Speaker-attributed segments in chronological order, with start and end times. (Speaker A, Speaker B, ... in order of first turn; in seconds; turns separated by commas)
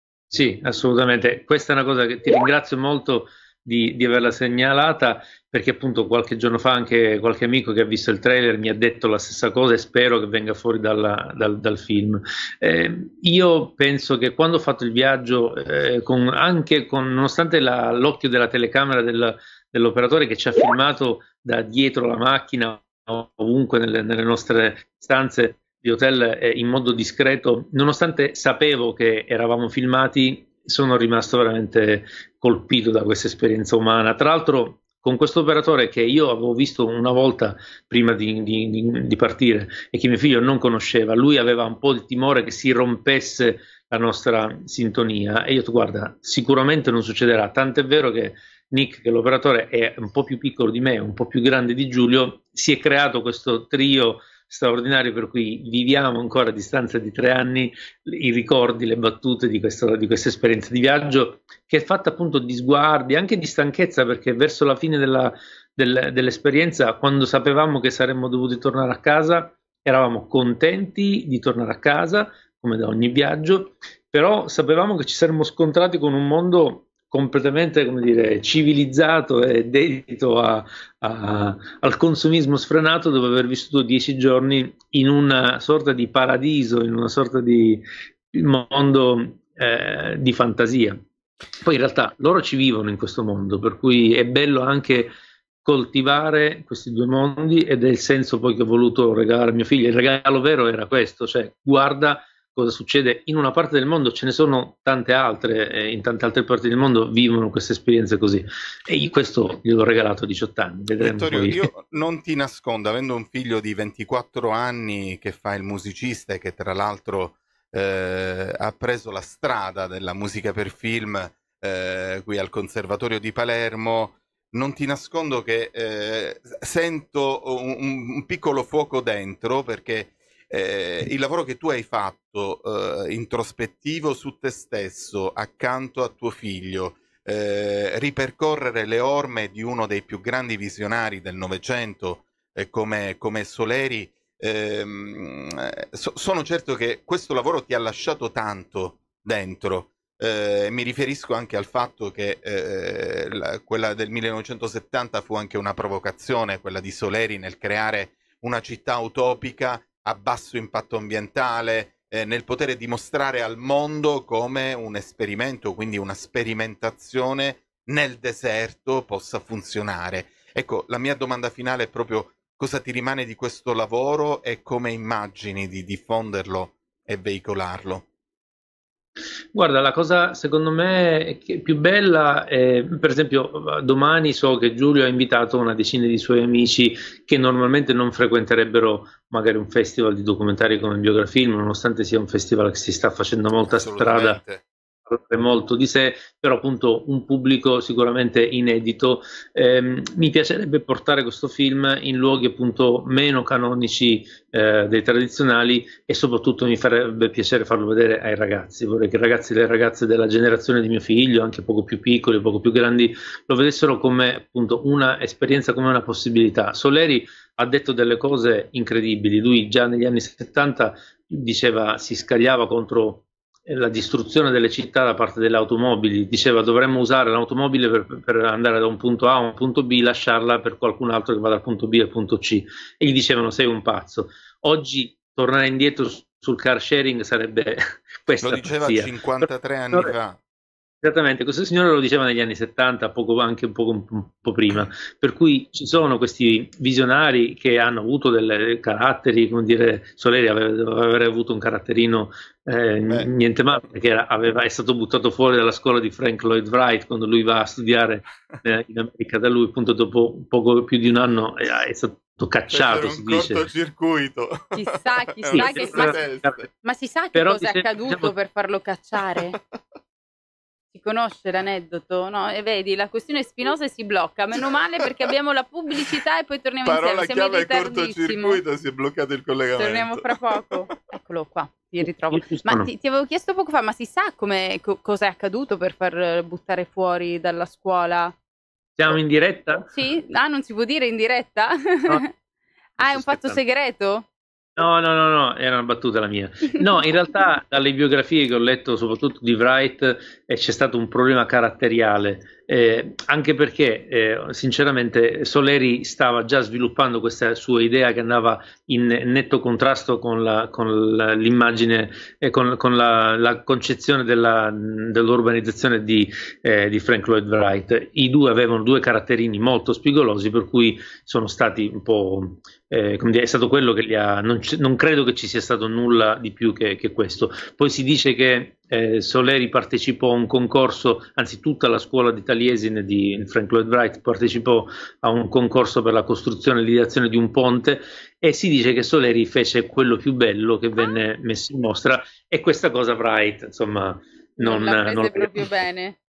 Speaker A: 0.3-91.0, Speaker A: 91.6-95.1, Speaker A: 95.6-111.7, Speaker B: 111.0-178.0, Speaker A: 179.5-194.4, Speaker B: 193.7-194.6, Speaker A: 195.1-240.1, Speaker B: 238.4-240.4, Speaker A: 241.0-263.7, Speaker B: 262.7-266.6, Speaker C: 264.7-266.2, Speaker A: 265.5-266.6, Speaker C: 266.8-269.6, Speaker A: 267.3-268.3, Speaker C: 270.9-278.6, Speaker B: 276.8-280.4, Speaker C: 279.8-288.3, Speaker A: 282.3-282.9, Speaker A: 289.0-289.9, Speaker C: 289.9-292.3, Speaker C: 293.0-294.2, Speaker A: 293.0-293.6, Speaker A: 294.8-345.6, Speaker C: 344.6-346.1